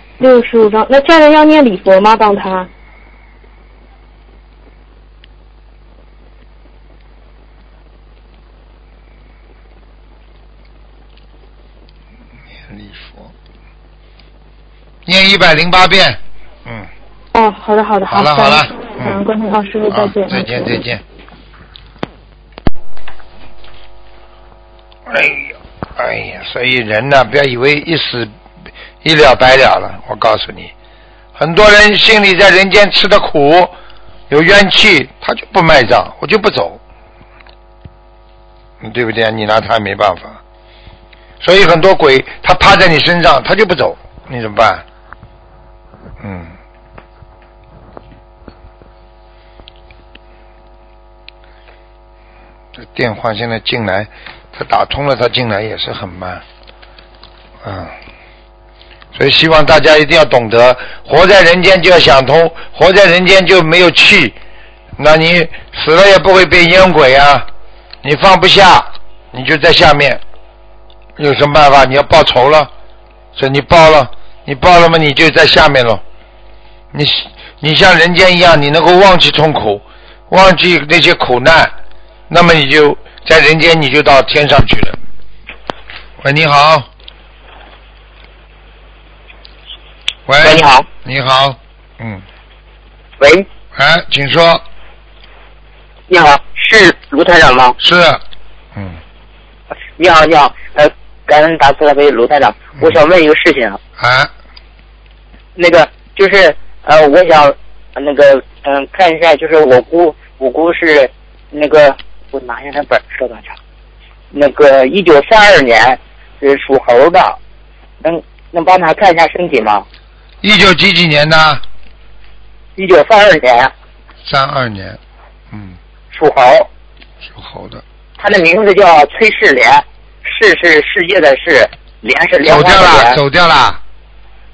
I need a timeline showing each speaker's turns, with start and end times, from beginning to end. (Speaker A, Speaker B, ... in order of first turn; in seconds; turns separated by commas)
Speaker A: 0.2-2.7, Speaker B: 12.6-13.3, Speaker B: 15.1-16.9, Speaker A: 17.3-20.8, Speaker B: 18.1-19.2, Speaker B: 19.9-21.0, Speaker B: 25.1-28.3, Speaker B: 29.0-30.7, Speaker B: 31.4-33.7, Speaker B: 34.3-36.8, Speaker B: 38.8-40.4, Speaker B: 41.4-44.8, Speaker B: 46.2-46.5, Speaker B: 52.8-56.4, Speaker B: 57.6-57.9, Speaker B: 59.1-64.4, Speaker B: 65.0-67.5, Speaker B: 68.0-70.2, Speaker B: 71.2-72.7, Speaker B: 73.3-76.0, Speaker B: 76.9-81.7, Speaker B: 82.3-85.0, Speaker B: 86.2-86.9, Speaker B: 90.3-92.2, Speaker C: 90.4-90.8, Speaker C: 93.2-93.5, Speaker B: 93.7-94.6, Speaker C: 96.1-97.8, Speaker B: 97.8-98.2, Speaker C: 100.0-103.8, Speaker B: 104.0-104.3, Speaker C: 105.5-113.5, Speaker C: 114.3-117.4, Speaker C: 118.0-119.8, Speaker B: 120.4-121.6, Speaker C: 122.8-123.7, Speaker B: 124.2-125.0, Speaker B: 125.5-125.8, Speaker C: 126.1-126.7, Speaker B: 127.2-127.8, Speaker C: 128.2-133.2, Speaker B: 132.4-133.8